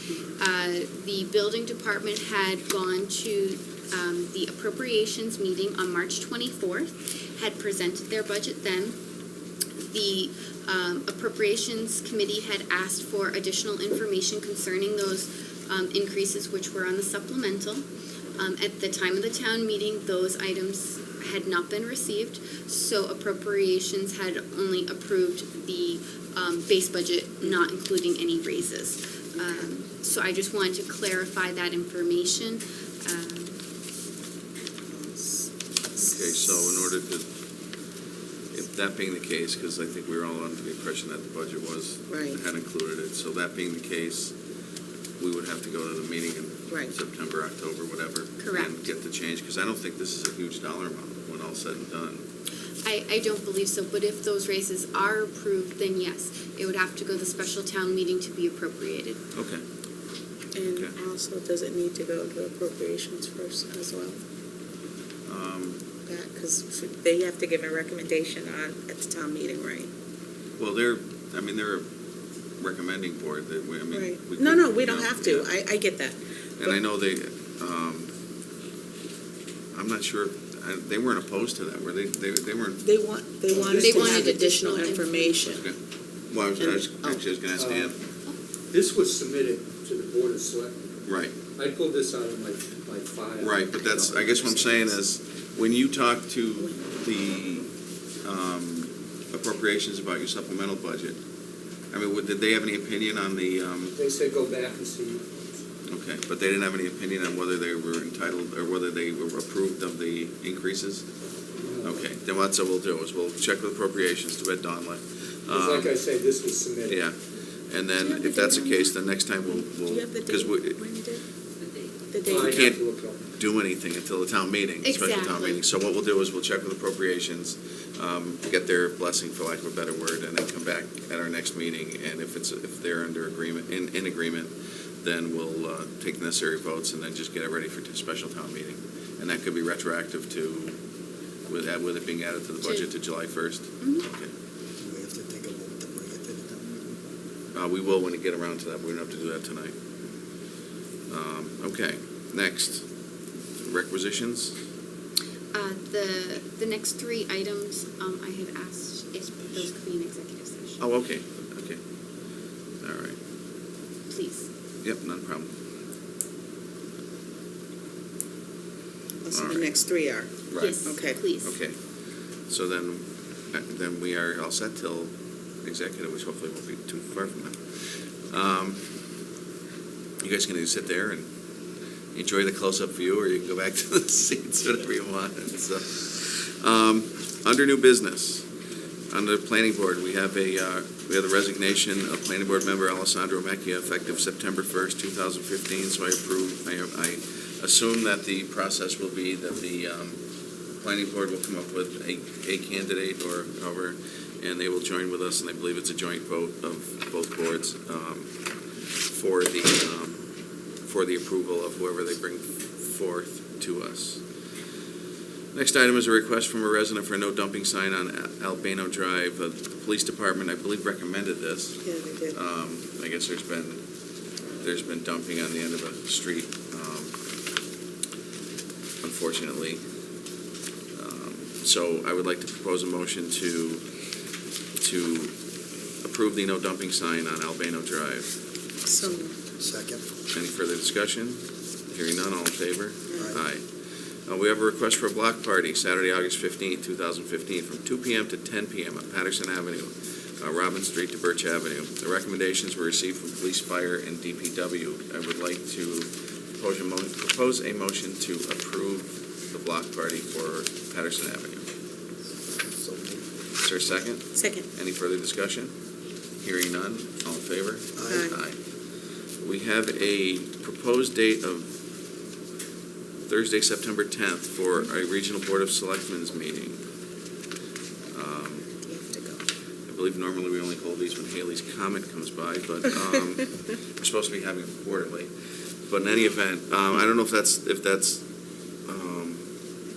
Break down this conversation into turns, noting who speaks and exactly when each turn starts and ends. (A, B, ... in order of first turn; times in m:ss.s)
0:00.4-0:09.0 A
0:09.9-0:17.8 A
0:18.4-0:33.6 A
0:34.9-0:35.5 B
0:35.9-0:37.2 C
0:38.5-0:44.3 C
0:42.1-0:42.4 B
0:45.2-0:52.2 C
0:48.4-0:48.7 A
0:52.8-0:59.2 A
0:59.4-0:59.6 C
1:00.5-1:04.2 B
1:05.3-1:05.8 C
1:06.0-1:09.9 B
1:10.6-1:11.8 C
1:12.6-1:15.5 C
1:13.9-1:16.8 B
1:16.6-1:18.1 C
1:19.7-1:22.8 C
1:22.8-1:25.7 B
1:23.5-1:24.4 D
1:23.8-1:25.4 A
1:25.4-1:25.7 C
1:26.3-1:27.9 C
1:26.6-1:27.2 B
1:27.5-1:27.9 D
1:28.7-1:30.7 D
1:31.1-1:31.4 C
1:31.4-1:34.8 D
1:33.4-1:37.7 C
1:38.2-1:41.2 C
1:41.9-1:43.9 C
1:44.0-1:45.3 D
1:45.9-1:51.0 C
1:51.6-1:52.0 D
1:51.8-1:55.9 C
1:55.5-1:57.1 D
1:56.9-1:57.1 C
1:57.7-2:00.8 C
1:58.0-1:58.9 B
1:59.7-2:01.2 B
2:02.1-2:02.6 B
2:02.2-2:03.2 D
2:02.3-2:02.8 C
2:03.3-2:20.7 C
2:04.8-2:05.6 A
2:21.5-2:24.3 C
2:24.8-2:27.0 E
2:27.5-2:29.7 C
2:31.1-2:32.8 C
2:33.6-2:34.5 C
2:35.5-2:40.8 A
2:40.8-2:41.8 C
2:42.8-2:43.2 C
2:44.1-2:44.5 A
2:44.8-2:45.5 C
2:49.2-2:50.3 B
2:49.3-2:49.7 C
2:50.5-2:50.9 C
2:50.6-2:51.5 A
2:50.8-2:51.2 B
2:51.4-2:51.8 C
2:52.5-2:55.1 C
2:55.6-2:57.6 C
2:58.3-2:58.8 C
3:00.2-3:01.2 C
3:02.1-3:08.4 C
3:09.1-3:20.2 C
3:20.8-3:28.3 C
3:29.1-3:30.2 C
3:30.9-3:34.2 C
3:35.5-3:41.8 C
3:41.8-3:42.4 B
3:42.3-3:43.8 C
3:44.6-3:47.1 C
3:49.0-3:49.8 C
3:51.0-3:53.8 C
3:54.8-3:55.3 C
3:56.0-3:58.3 C
3:58.8-3:59.3 B
3:59.6-4:00.0 E
4:00.3-4:01.4 C
4:01.9-4:03.6 C
4:04.3-4:21.6 C
4:22.7-4:23.2 E
4:23.6-4:25.7 C
4:24.4-4:24.6 B
4:26.4-4:28.5 C
4:27.9-4:28.3 E
4:28.1-4:28.4 B
4:29.4-4:31.7 C
4:33.3-4:36.8 C
4:38.1-4:38.7 C
4:38.9-4:39.4 B
4:39.9-4:45.3 C
4:45.9-4:48.2 C
4:48.9-4:49.4 C